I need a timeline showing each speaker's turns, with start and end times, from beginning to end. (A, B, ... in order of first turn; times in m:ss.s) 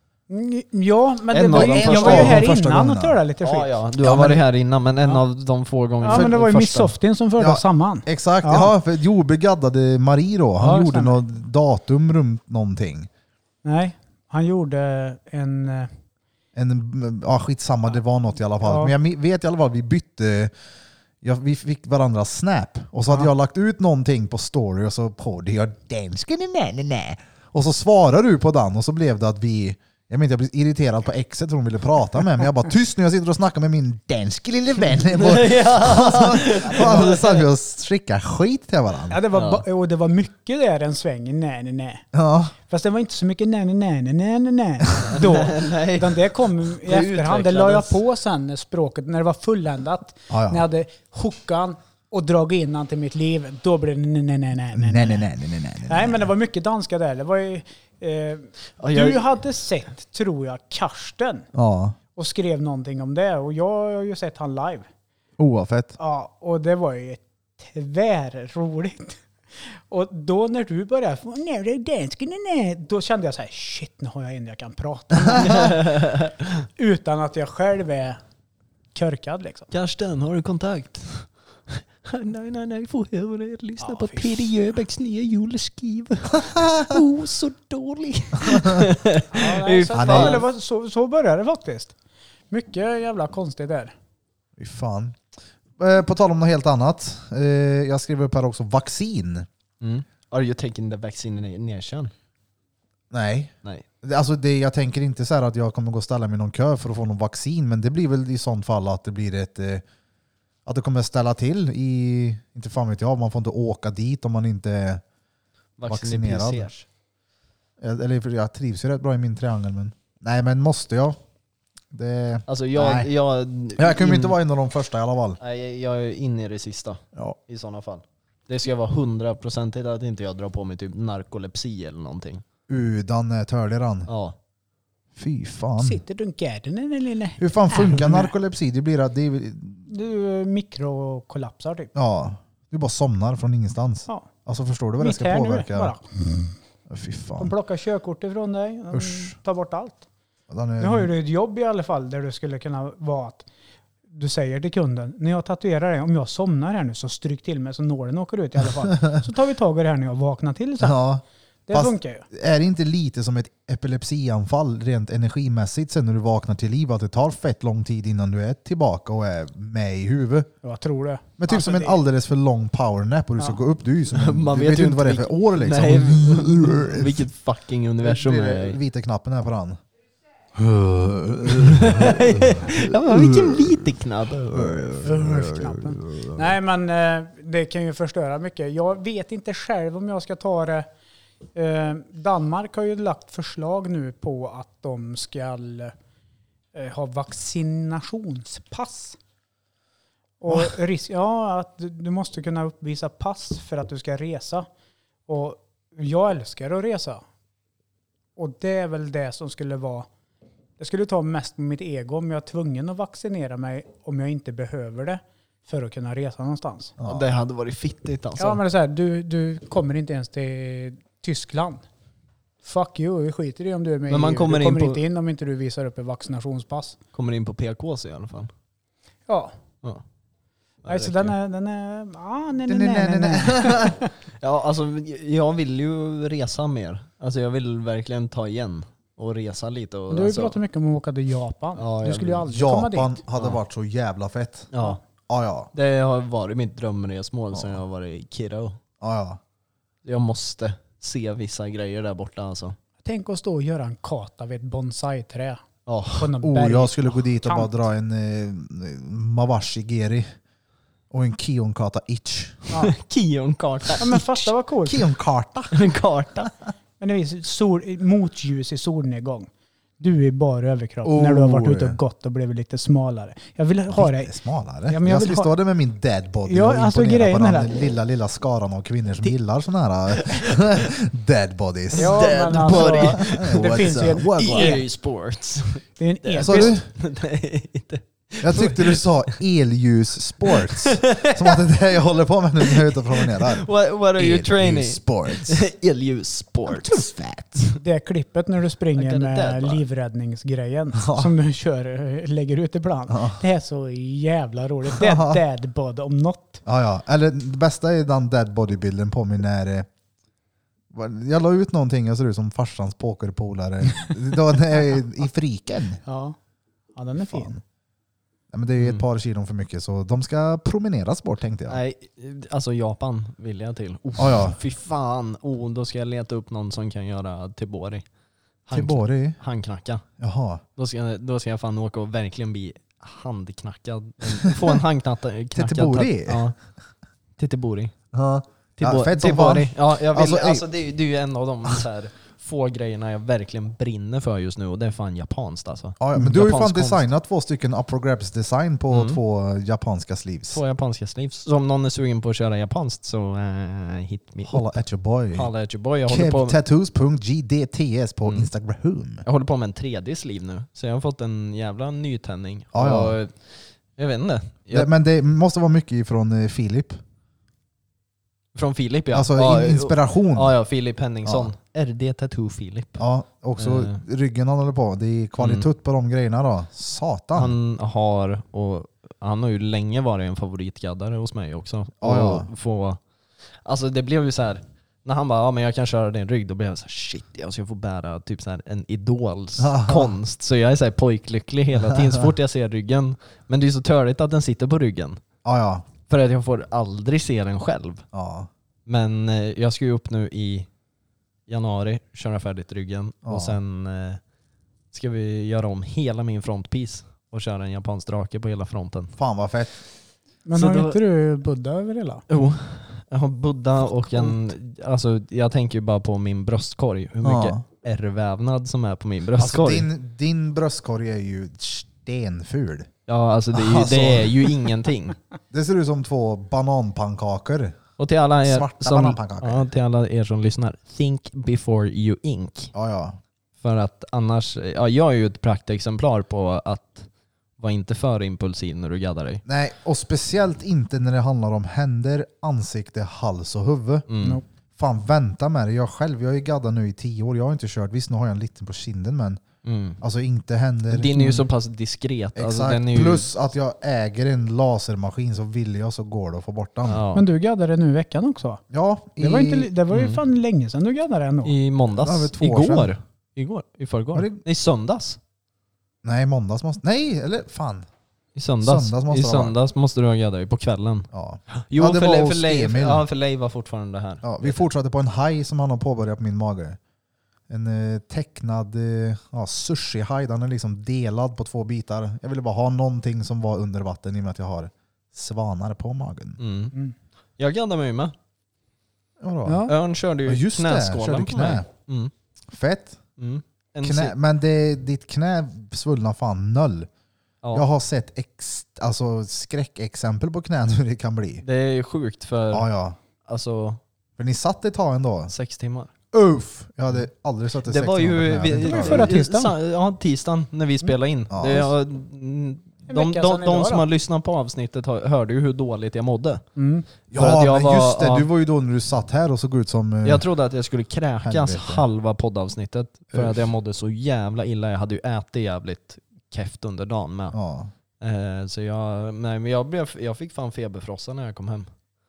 0:00.3-0:04.4 A
0:01.3-0:02.4 B
0:01.5-0:03.2 C
0:03.4-0:06.9 B
0:06.0-0:08.7 A
0:07.4-0:13.1 C
0:10.6-0:11.2 A
0:13.6-0:15.9 A
0:16.5-0:20.5 C
0:18.6-0:18.9 A
0:21.2-0:39.2 C
0:35.1-0:37.4 B
0:39.1-0:42.0 A
0:39.3-0:39.6 B
0:42.1-0:42.5 C
0:42.7-0:55.2 A
0:45.0-0:48.0 B
0:50.3-0:50.6 C
0:54.7-0:56.3 C
0:55.9-1:01.5 A
0:58.8-0:59.2 B
1:01.5-1:02.0 C
1:02.2-1:04.9 A
1:05.4-1:06.0 C
1:06.0-1:16.1 A
1:15.4-1:16.4 B
1:16.8-1:18.2 A
1:18.9-1:19.7 A
1:19.7-1:30.4 B
1:23.8-1:24.5 A
1:26.4-1:27.0 C
1:28.5-1:28.8 C
1:29.3-1:31.9 A
1:29.9-1:30.4 C
1:32.5-1:33.9 A
1:34.6-1:35.2 C
1:35.8-1:39.5 C
1:39.8-1:42.1 B
1:43.1-1:49.8 C
1:50.6-1:55.0 C
1:55.8-1:56.8 B
1:55.9-1:56.7 C
1:57.8-2:01.2 C
2:01.9-2:03.1 C
2:02.5-2:04.4 B
2:03.8-2:05.4 C
2:05.4-2:12.4 B
2:12.7-2:14.1 C
2:14.1-2:14.4 B
2:15.2-2:16.0 C
2:15.8-2:18.3 A
2:17.4-2:19.9 C
2:19.9-2:21.9 A
2:21.9-2:25.9 C
2:25.0-2:26.5 A
2:26.9-2:27.5 C
2:27.4-2:30.0 A
2:28.9-2:29.3 C
2:30.5-2:31.1 C
2:30.8-2:33.4 A
2:34.1-2:41.0 A
2:40.8-2:50.5 C
2:41.7-2:42.2 A
2:50.6-2:52.0 A
2:51.4-2:57.2 C
2:54.1-2:58.8 B
2:58.0-2:59.8 C
3:00.6-3:03.8 C
3:01.5-3:05.1 B
3:04.5-3:06.5 C
3:05.0-3:10.8 A
3:11.5-3:15.9 A
3:16.7-3:19.2 A
3:20.4-3:24.7 A
3:25.3-3:27.2 A
3:28.4-3:30.1 A
3:30.8-3:36.9 A
3:37.0-3:37.3 C
3:37.0-3:38.6 B
3:38.4-3:41.8 A
3:42.6-3:47.0 A
3:44.1-3:45.0 B
3:47.1-3:48.5 B
3:49.3-3:49.5 A
3:50.8-3:51.3 B
3:50.9-3:54.1 A
3:52.7-3:54.0 C
3:54.4-4:00.6 B
4:00.1-4:03.2 A
4:01.8-4:02.4 B
4:02.5-4:04.7 C
4:04.7-4:05.0 B
4:05.3-4:05.7 C
4:05.7-4:08.8 B
4:07.5-4:07.8 C
4:09.0-4:09.4 C
4:10.0-4:12.8 B
4:13.0-4:15.6 A
4:15.9-4:16.3 B
4:16.2-4:17.7 A
4:16.4-4:20.3 C
4:21.1-4:22.7 C
4:22.8-4:24.4 B
4:24.0-4:25.0 A
4:24.8-4:25.8 C
4:25.7-4:26.5 B
4:27.0-4:29.5 A
4:30.0-4:34.3 A
4:31.0-4:32.0 C
4:33.9-4:44.8 C
4:34.8-4:35.5 A
4:36.4-4:37.8 A
4:40.1-4:40.6 B
4:41.9-4:49.4 B
4:42.0-4:44.8 A
4:46.0-4:46.8 A
4:46.4-4:46.8 C
4:48.4-4:55.6 C
4:50.5-4:51.7 B
4:52.6-4:57.0 B
4:56.7-4:57.7 C
4:57.8-5:06.6 A
4:59.0-4:59.8 B
5:01.0-5:01.3 C
5:03.1-5:03.4 C
5:05.0-5:05.4 C
5:06.6-5:09.9 C
5:10.9-5:16.0 C
5:16.0-5:16.4 A
5:17.0-5:17.6 A
5:17.2-5:17.6 C
5:18.5-5:21.8 C
5:21.7-5:28.0 B
5:24.2-5:24.6 C
5:28.6-5:30.0 B
5:28.7-5:29.4 C
5:30.2-5:30.6 C
5:30.8-5:36.6 B
5:34.5-5:34.7 C
5:35.5-5:36.5 C
5:37.4-5:38.0 B
5:38.1-5:40.6 C
5:38.8-5:47.1 B
5:46.0-5:50.6 C
5:48.9-5:49.2 B
5:50.5-5:54.6 B
5:54.4-5:55.5 C
5:55.3-5:56.6 B
5:56.0-5:59.2 C
5:59.2-6:04.9 B
6:02.7-6:03.2 C
6:04.7-6:07.0 C
6:08.5-6:13.0 B
6:09.1-6:10.5 C
6:11.2-6:11.5 C
6:13.0-6:17.5 C
6:13.6-6:14.0 B
6:15.4-6:15.7 B
6:17.3-6:23.0 B
6:22.0-6:22.5 C
6:23.6-6:35.2 B
6:29.6-6:30.2 C
6:31.8-6:32.3 C
6:35.4-6:35.8 C
6:36.1-6:38.0 B
6:38.1-6:38.5 C
6:38.8-6:40.7 B
6:41.5-6:44.2 B
6:43.2-6:43.6 C
6:44.9-6:49.2 B
6:49.2-6:49.8 C
6:50.4-6:52.2 A
6:50.5-6:51.0 B
6:52.3-6:59.9 B
6:57.2-6:57.6 C
6:59.4-7:02.9 C
7:03.1-7:05.2 B
7:03.5-7:04.7 C
7:05.5-7:07.8 C
7:08.0-7:12.7 B
7:08.4-7:09.6 C
7:12.7-7:13.2 C
7:13.6-7:17.1 B
7:17.6-7:19.4 B
7:19.4-7:24.0 C
7:24.1-7:24.4 B
7:24.8-7:29.4 C
7:29.6-7:30.0 B
7:30.0-7:31.1 C
7:30.9-7:33.3 B
7:31.1-7:31.4 A
7:32.4-7:37.0 C
7:36.8-7:37.2 B
7:37.1-7:38.6 A
7:38.7-7:39.7 C
7:39.2-7:41.5 A
7:39.9-7:40.2 B
7:41.4-7:45.2 B
7:42.0-7:42.9 C
7:44.1-7:44.4 C
7:46.0-7:47.9 C
7:48.4-7:54.7 B
7:48.6-7:49.5 C
7:51.1-7:53.0 C
7:54.2-7:56.8 C
7:57.5-8:06.4 C
8:06.4-8:06.8 B
8:07.4-8:08.1 B
8:09.2-8:09.7 C
8:09.4-8:09.7 A
8:09.6-8:12.1 B
8:10.2-8:11.7 C
8:12.5-8:13.0 C
8:13.2-8:14.1 B
8:13.8-8:16.9 C
8:17.5-8:21.4 C
8:21.4-8:22.7 B
8:22.5-8:23.0 C
8:23.2-8:23.8 B
8:24.2-8:25.3 C
8:25.3-8:25.9 B
8:26.1-8:29.1 C
8:27.6-8:36.4 B
8:28.6-8:29.5 A
8:31.3-8:31.7 C
8:32.9-8:33.8 A
8:36.6-8:36.9 A
8:37.1-8:40.2 C
8:37.1-8:38.3 B
8:40.0-8:47.4 B
8:41.2-8:41.8 C
8:43.1-8:43.5 C
8:47.3-8:47.7 C
8:48.0-8:51.7 B